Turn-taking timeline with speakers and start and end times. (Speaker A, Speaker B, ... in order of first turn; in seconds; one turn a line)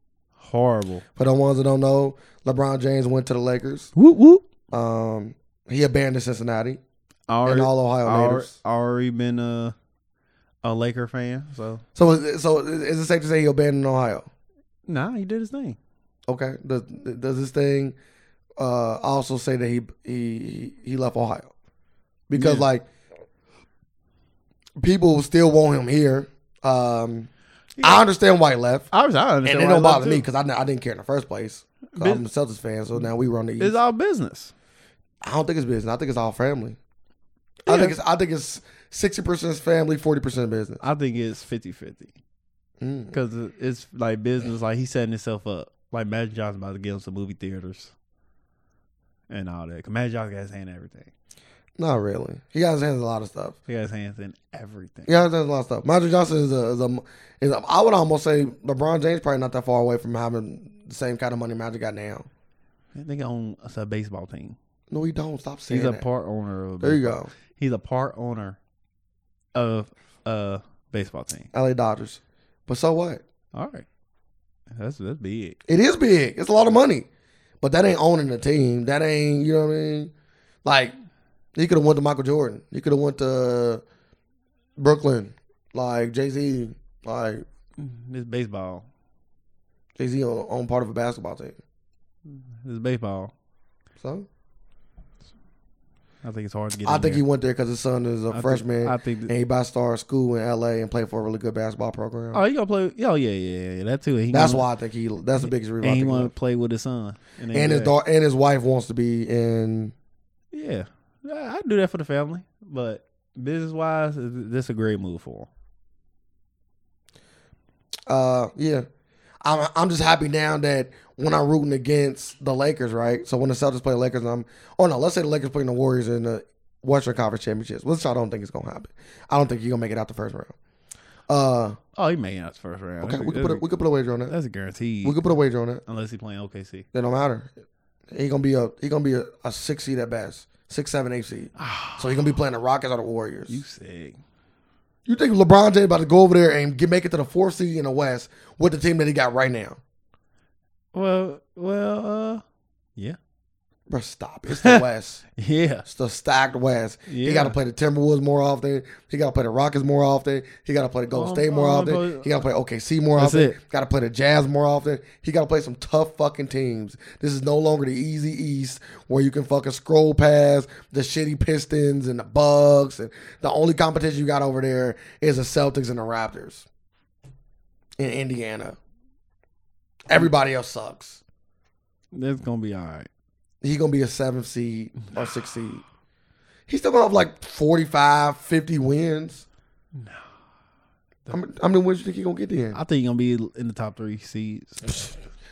Speaker A: 0.4-1.0
Speaker B: 1.1-3.9
Speaker A: 4.0-4.4
Speaker B: 4.7-6.8
Speaker A: 7.3-9.7
Speaker B: 7.5-8.5
Speaker A: 10.6-11.8
Speaker B: 11.9-14.3
Speaker A: 14.9-15.8
Speaker B: 16.3-17.9
Speaker B: 18.6-21.5
Speaker B: 22.3-22.9
Speaker A: 22.3-22.7
Speaker B: 24.8-27.3
Speaker B: 27.8-28.9
Speaker A: 28.9-30.2
Speaker B: 29.4-33.8
Speaker A: 31.9-32.2
Speaker A: 33.6-34.5
Speaker B: 35.2-36.8
Speaker B: 37.6-40.8
Speaker A: 37.7-37.9
Speaker A: 40.8-42.1
Speaker B: 42.8-43.1
Speaker A: 43.1-47.9
Speaker A: 49.3-51.1
Speaker B: 51.8-53.6
Speaker A: 53.7-55.1
Speaker B: 55.1-62.3
Speaker A: 62.9-64.5
Speaker B: 64.9-66.0
Speaker A: 65.7-68.6
Speaker B: 66.8-67.3
Speaker A: 69.5-71.5
Speaker B: 71.5-73.2
Speaker A: 73.5-73.8
Speaker A: 74.8-75.6
Speaker B: 75.7-77.1
Speaker B: 77.6-80.1
Speaker B: 80.6-80.9
Speaker B: 81.5-83.8
Speaker B: 84.8-87.4
Speaker A: 87.8-88.8
Speaker B: 90.0-91.6
Speaker A: 92.3-93.3
Speaker B: 94.0-94.3
Speaker A: 96.2-97.2
Speaker B: 96.8-102.4
Speaker A: 98.3-99.3
Speaker A: 102.3-104.7
Speaker B: 104.3-106.3
Speaker A: 105.4-107.9
Speaker B: 107.5-109.9
Speaker A: 110.5-115.5
Speaker B: 118.1-118.8
Speaker B: 119.4-130.5
Speaker B: 131.3-131.8
Speaker A: 131.9-133.6
Speaker B: 133.0-134.3
Speaker A: 134.3-135.2
Speaker B: 135.0-135.8
Speaker A: 135.9-136.8
Speaker B: 136.9-137.5
Speaker B: 138.1-143.6
Speaker A: 141.6-142.3
Speaker A: 143.5-144.2
Speaker B: 145.1-149.8
Speaker A: 150.9-152.4
Speaker B: 153.9-155.2
Speaker A: 154.5-154.8
Speaker A: 155.4-155.8
Speaker B: 155.8-176.7
Speaker A: 157.1-157.5
Speaker A: 161.1-162.3
Speaker A: 163.2-163.6
Speaker B: 178.0-178.8
Speaker B: 180.1-181.2
Speaker A: 182.1-183.1
Speaker B: 183.6-185.8
Speaker B: 186.7-189.4
Speaker A: 189.9-190.2
Speaker B: 191.3-192.8
Speaker A: 192.7-194.9